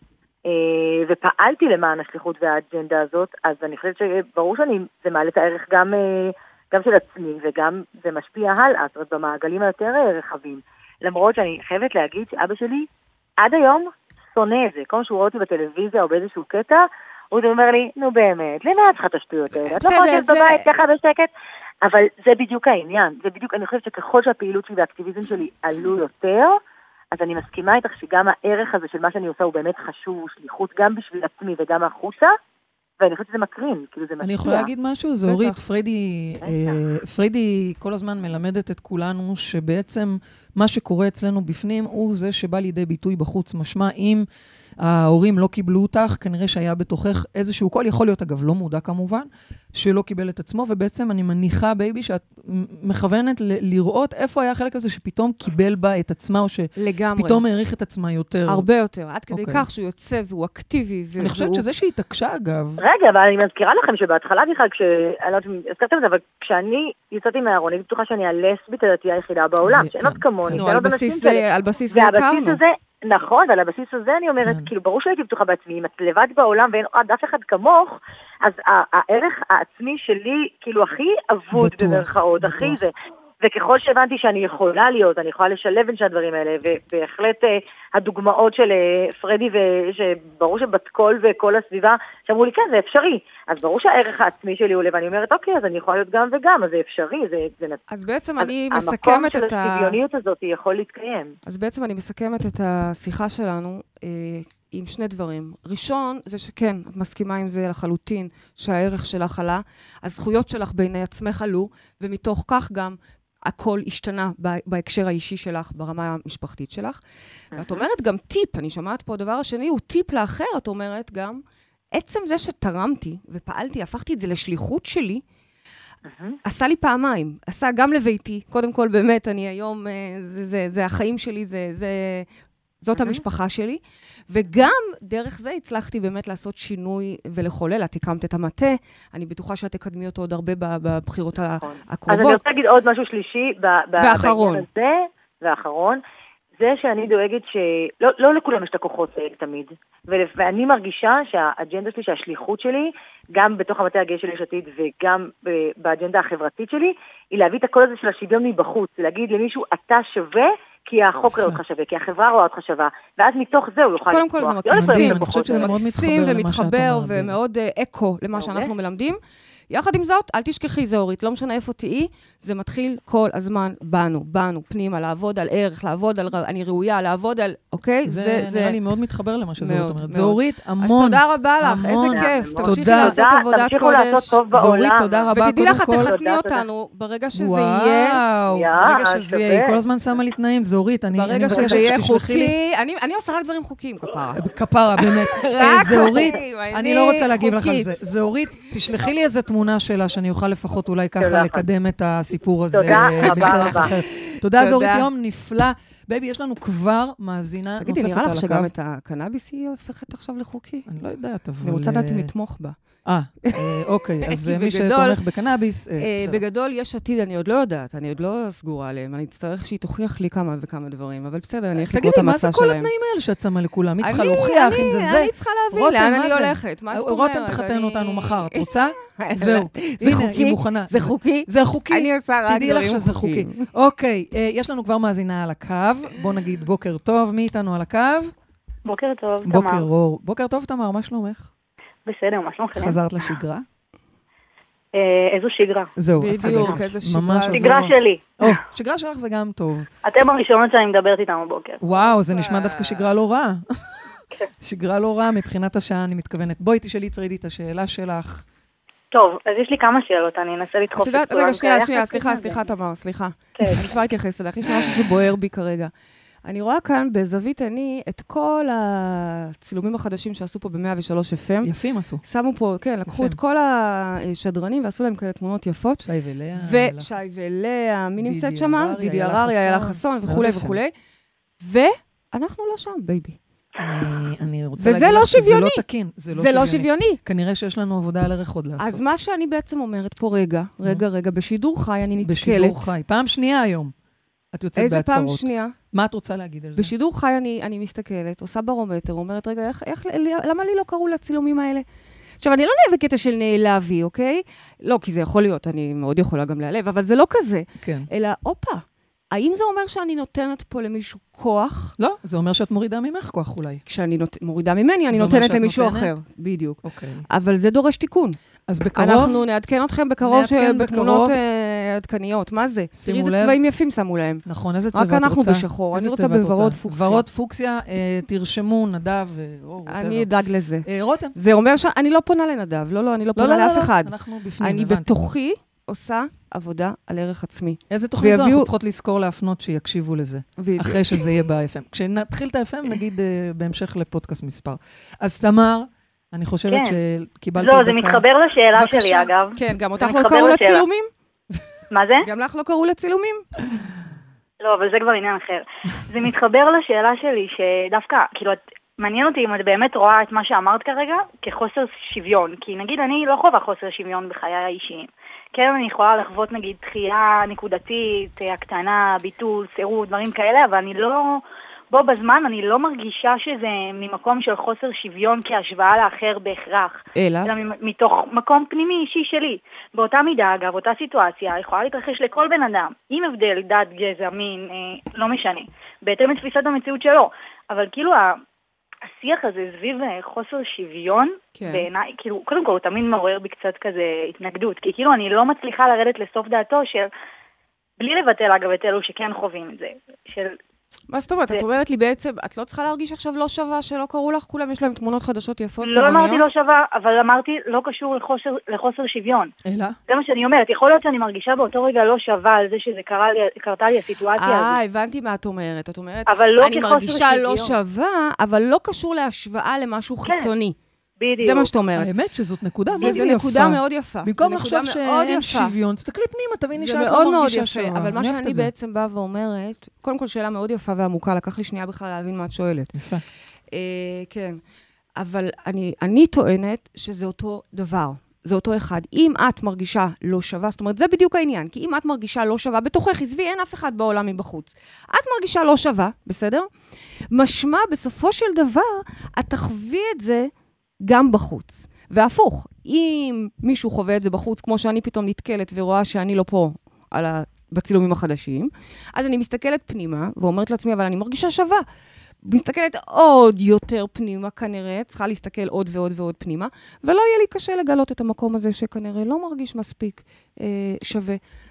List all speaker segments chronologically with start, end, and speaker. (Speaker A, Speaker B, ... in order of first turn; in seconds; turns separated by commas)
Speaker A: 0.5-12.9, Speaker A: 13.4-21.3, Speaker B: 19.8-20.6, Speaker A: 21.8-26.6, Speaker A: 27.1-32.3, Speaker A: 33.0-34.7, Speaker C: 34.2-44.2, Speaker B: 35.2-35.6, Speaker A: 36.4-36.8, Speaker C: 44.8-58.6, Speaker B: 56.8-57.4, Speaker B: 58.5-61.6, Speaker C: 59.3-59.6, Speaker C: 61.2-62.8, Speaker A: 62.8-97.8, Speaker C: 69.6-70.7, Speaker B: 70.5-72.6, Speaker C: 74.4-74.7, Speaker C: 81.5-82.8, Speaker B: 97.9-100.0, Speaker A: 98.4-101.3, Speaker B: 101.5-117.0, Speaker A: 117.5-117.8, Speaker B: 117.6-121.4, Speaker B: 121.9-125.2, Speaker A: 126.1-126.3, Speaker B: 126.4-132.3, Speaker B: 132.8-142.4, Speaker A: 132.9-133.2, Speaker A: 141.6-146.0, Speaker B: 144.0-144.6, Speaker A: 146.6-165.7, Speaker B: 164.1-169.2, Speaker C: 164.7-167.3, Speaker A: 168.4-168.7, Speaker B: 169.7-178.8, Speaker C: 178.0-183.2, Speaker B: 179.6-184.4, Speaker A: 182.1-185.2, Speaker C: 184.5-186.1, Speaker B: 185.3-188.2, Speaker A: 186.0-186.6, Speaker C: 187.3-192.5, Speaker A: 188.5-189.8, Speaker B: 191.1-194.4, Speaker C: 194.3-208.7, Speaker B: 195.0-197.9, Speaker A: 201.2-201.6, Speaker A: 202.7-203.9, Speaker B: 203.2-205.1, Speaker B: 207.8-210.9, Speaker C: 210.9-212.3, Speaker B: 211.6-212.8, Speaker C: 213.1-216.4, Speaker B: 213.4-215.2, Speaker B: 216.0-222.9, Speaker C: 221.8-238.3, Speaker B: 224.0-233.7, Speaker D: 238.8-239.8, Speaker C: 239.4-241.5, Speaker D: 242.1-243.0, Speaker C: 242.7-243.7, Speaker D: 244.9-245.9, Speaker C: 246.0-249.9, Speaker B: 246.2-247.8, Speaker D: 246.4-246.7, Speaker D: 247.5-248.6, Speaker D: 250.0-251.8, Speaker C: 251.8-253.9, Speaker B: 251.9-253.1, Speaker C: 254.6-258.4, Speaker D: 259.1-262.6, Speaker B: 260.9-265.9, Speaker D: 263.6-263.8, Speaker B: 266.4-271.7, Speaker C: 271.6-272.2, Speaker B: 272.2-280.9, Speaker C: 273.1-273.4, Speaker C: 276.0-277.1, Speaker C: 278.2-280.8, Speaker B: 281.6-283.4, Speaker C: 283.8-289.0, Speaker B: 284.8-287.2, Speaker B: 288.8-292.9, Speaker C: 292.2-293.9, Speaker C: 294.5-296.9, Speaker B: 294.8-295.7, Speaker B: 296.8-301.9, Speaker B: 302.4-311.9, Speaker C: 307.8-308.1, Speaker C: 312.0-313.8, Speaker B: 313.9-318.4, Speaker C: 315.1-316.1, Speaker C: 316.8-317.2, Speaker C: 318.7-319.4, Speaker B: 318.9-327.2, Speaker C: 320.2-321.4, Speaker C: 322.9-323.6, Speaker C: 324.4-330.3, Speaker B: 329.9-338.7, Speaker C: 330.8-331.4, Speaker C: 333.3-335.2, Speaker C: 337.9-349.3, Speaker B: 340.6-341.2, Speaker D: 346.7-347.0, Speaker D: 347.6-350.8, Speaker B: 349.6-351.1, Speaker D: 351.9-352.3, Speaker B: 352.2-353.4, Speaker D: 354.6-388.4, Speaker B: 377.1-377.5, Speaker D: 389.1-397.1, Speaker B: 391.6-391.9, Speaker D: 398.0-400.6, Speaker B: 401.1-406.5, Speaker D: 405.8-409.5, Speaker C: 409.6-410.0, Speaker D: 410.1-414.8, Speaker B: 414.4-420.8, Speaker D: 416.3-417.8, Speaker D: 420.2-420.5, Speaker D: 421.2-421.7, Speaker B: 421.4-422.1, Speaker C: 421.9-428.7, Speaker B: 423.0-425.7, Speaker B: 426.8-432.9, Speaker C: 432.9-433.2, Speaker B: 433.7-434.6, Speaker B: 435.2-446.7, Speaker B: 447.3-450.5, Speaker B: 451.0-461.8, Speaker B: 462.4-471.4